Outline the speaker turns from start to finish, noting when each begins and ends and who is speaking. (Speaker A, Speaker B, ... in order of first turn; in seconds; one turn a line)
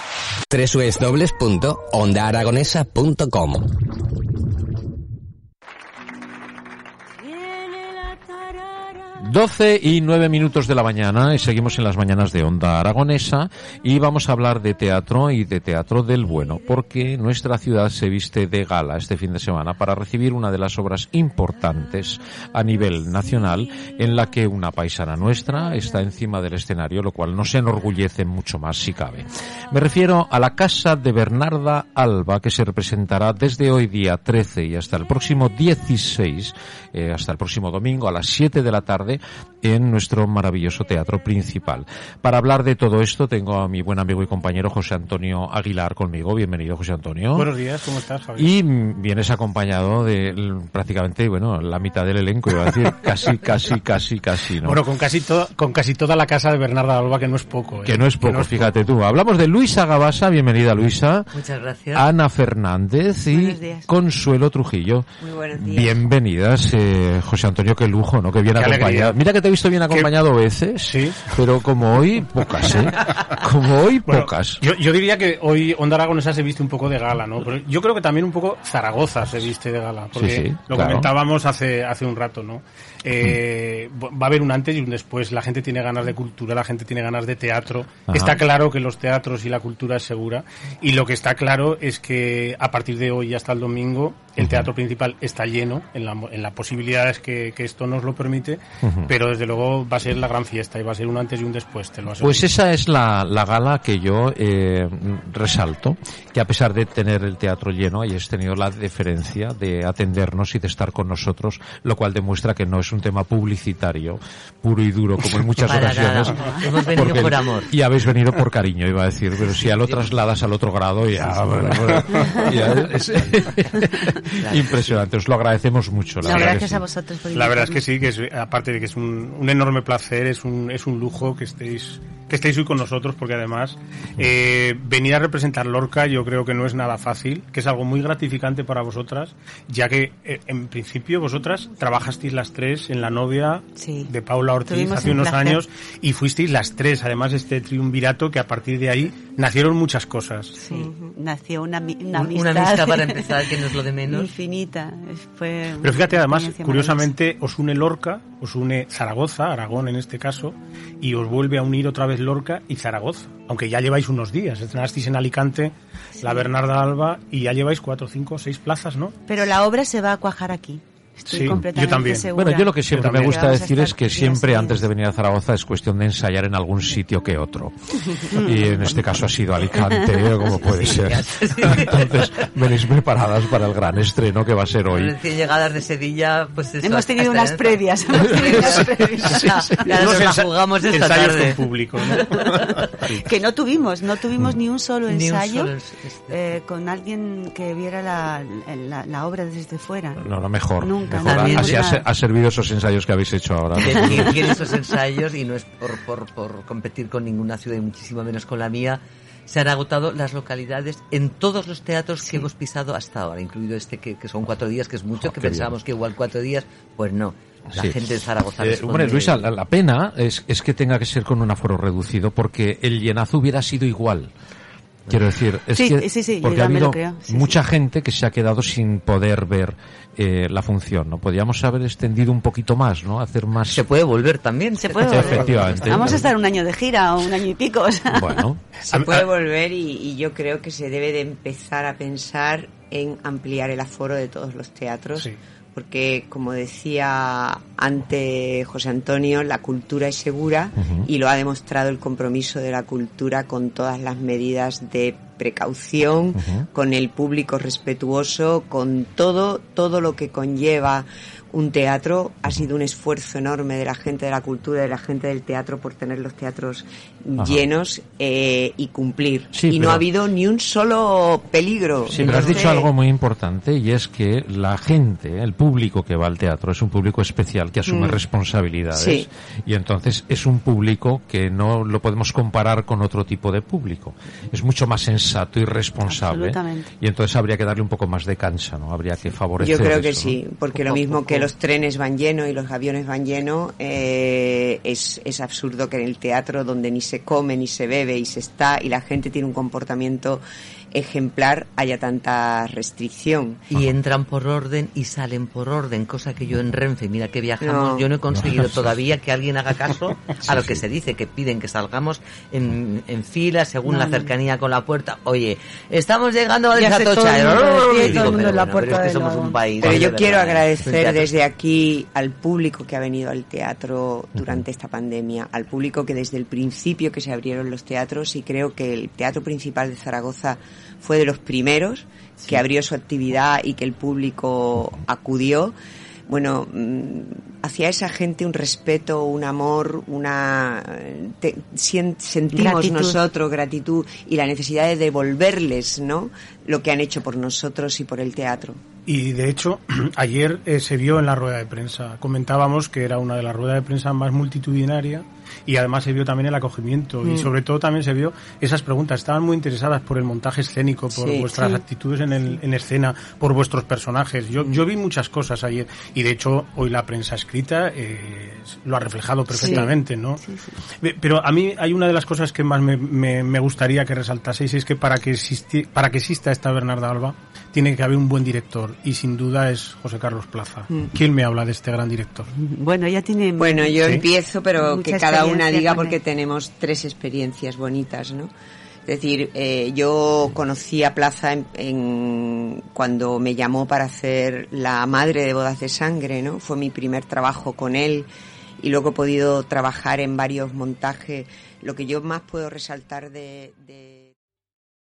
Speaker A: 0.5-3.7
Speaker B: 9.2-47.5
Speaker C: 47.3-48.5
Speaker B: 48.4-54.8
Speaker C: 54.6-58.7
Speaker B: 57.8-61.3
Speaker D: 61.3-62.1
Speaker B: 61.9-74.6
Speaker E: 63.3-63.9
Speaker F: 65.2-66.0
Speaker C: 68.5-69.2
Speaker C: 70.8-71.3
Speaker C: 74.0-102.5
Speaker B: 80.1-81.1
Speaker B: 88.1-88.3
Speaker B: 94.4-94.7
Speaker B: 98.8-99.1
Speaker B: 102.2-126.8
Speaker D: 115.6-117.7
Speaker D: 119.6-120.2
Speaker C: 121.4-122.1
Speaker E: 122.2-122.5
Speaker D: 124.4-125.0
Speaker E: 126.2-127.8
Speaker C: 126.3-126.6
Speaker C: 127.3-150.6
Speaker E: 143.8-144.1
Speaker E: 144.6-145.6
Speaker E: 150.6-153.5
Speaker F: 150.7-151.2
Speaker D: 152.1-154.3
Speaker E: 154.1-157.1
Speaker C: 155.8-169.1
Speaker E: 166.2-166.5
Speaker E: 169.3-174.9
Speaker C: 171.3-172.3
Speaker B: 172.3-185.1
Speaker C: 172.8-173.5
Speaker E: 178.3-178.9
Speaker E: 179.7-180.2
Speaker D: 180.4-182.5
Speaker D: 184.9-191.6
Speaker E: 186.8-190.1
Speaker C: 189.8-192.7
Speaker D: 192.2-192.6
Speaker E: 193.1-195.7
Speaker D: 195.1-196.4
Speaker E: 196.3-200.3
Speaker B: 200.2-204.4
Speaker E: 200.8-202.0
Speaker D: 201.1-201.9
Speaker D: 203.8-219.5
Speaker B: 215.2-215.7
Speaker B: 217.7-218.0
Speaker B: 218.6-224.3
Speaker B: 225.1-233.8
Speaker E: 225.7-227.6
Speaker D: 233.7-236.3
Speaker E: 234.8-238.4
Speaker B: 235.0-236.2
Speaker B: 238.1-238.6
Speaker C: 238.9-239.3
Speaker F: 238.9-272.9
Speaker B: 250.8-251.1
Speaker B: 256.3-256.6
Speaker B: 269.5-270.0
Speaker B: 272.1-290.4
Speaker F: 277.9-278.2
Speaker F: 278.9-279.3
Speaker E: 286.1-286.9
Speaker F: 289.6-303.6
Speaker D: 290.7-291.5
Speaker D: 303.7-321.3
Speaker F: 307.6-308.1
Speaker B: 308.3-308.8
Speaker B: 310.5-310.7
Speaker E: 313.9-314.3
Speaker E: 316.7-319.6
Speaker F: 319.8-335.7
Speaker F: 336.3-348.8
Speaker E: 342.5-343.2
Speaker C: 349.1-370.4
Speaker F: 361.1-361.5
Speaker E: 361.5-361.8
Speaker E: 369.5-370.8
Speaker F: 369.6-369.9
Speaker C: 371.0-382.5
Speaker E: 382.5-384.2
Speaker F: 383.6-388.5
Speaker C: 384.0-384.2
Speaker E: 384.8-386.2
Speaker F: 389.1-398.3
Speaker F: 398.8-404.3